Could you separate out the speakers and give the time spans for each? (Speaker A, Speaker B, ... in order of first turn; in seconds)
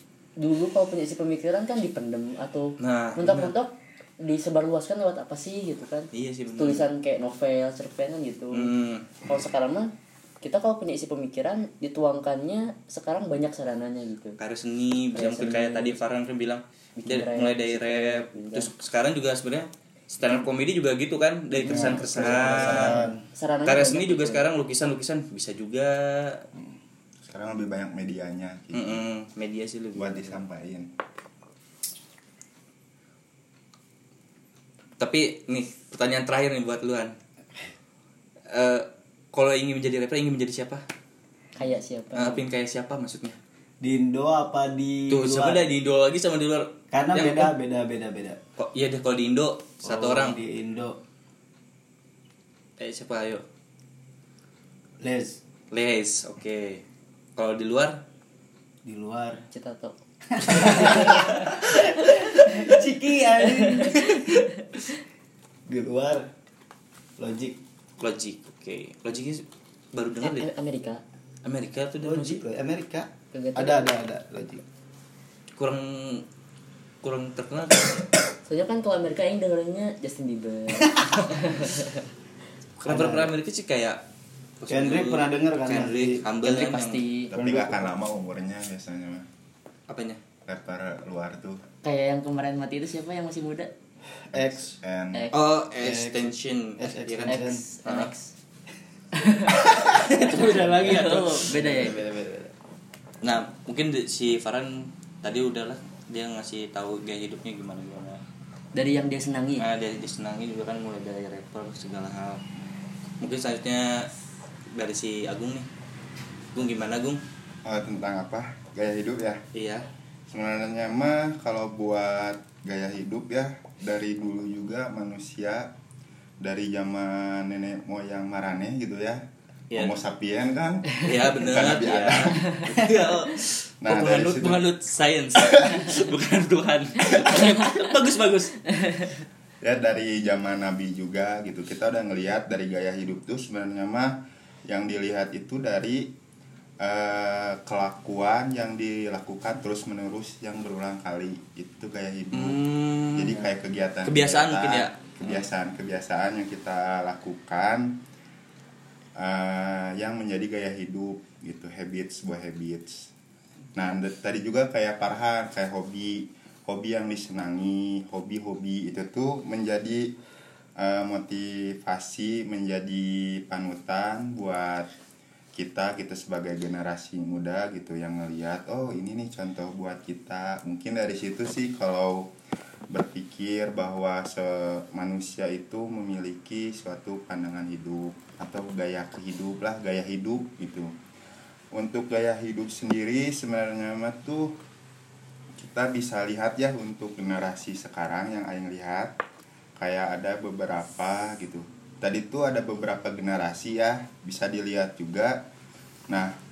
Speaker A: 0.4-8.7, 9.2-14.4, 15.1-16.0, 17.0-18.7, 21.7-24.4, 41.5-42.4, 59.5-62.8, 63.4-64.6, 70.2-71.0, 73.3-73.9, 78.5-82.0, 86.4-87.3, 91.8-93.7, 95.1-95.4, 97.3-98.3, 99.1-102.0, 108.7-109.7, 138.8-139.1
Speaker B: 2.8-3.5, 6.1-6.8, 8.5-9.2, 14.4-23.0, 23.6-26.4, 28.7-30.4, 35.0-37.1, 38.5-40.8, 42.1-43.4, 45.1-47.5, 48.6-50.4, 52.8-53.4, 55.7-56.8, 57.4-58.0, 68.0-70.5, 71.4-72.4, 75.5-76.2, 77.0-78.1, 82.8-84.0, 84.6-87.0, 89.9-90.2, 95.3-98.1, 99.6-101.6, 103.2-108.2, 109.6-112.4, 113.2-114.1, 114.7-115.7, 116.5-117.2, 119.5-119.9, 129.7-130.0, 131.0-138.6, 152.3-153.4, 154.0-155.4
Speaker C: 21.6-23.2, 43.8-45.7, 46.9-48.4, 49.8-51.0, 55.0-55.4, 58.8-59.5, 60.3-64.8, 65.7-66.3, 67.2-67.6, 72.0-74.6, 82.9-83.3, 84.7-86.2, 87.3-87.9, 94.3-94.7, 95.7-97.6, 100.2-102.5
Speaker D: 27.2-29.0, 29.9-30.9, 87.3-89.2, 90.5-91.6, 94.3-95.3, 117.6-119.4, 120.3-125.7, 126.4-129.2, 129.7-133.1, 133.8-134.6, 135.4-135.9, 139.6-146.1, 146.8-158.0, 159.2-163.1, 163.7-170.1, 170.8-174.9, 175.5-182.3, 182.9-190.9, 191.7-194.6, 195.6-199.2, 199.8-205.4, 206.1-206.3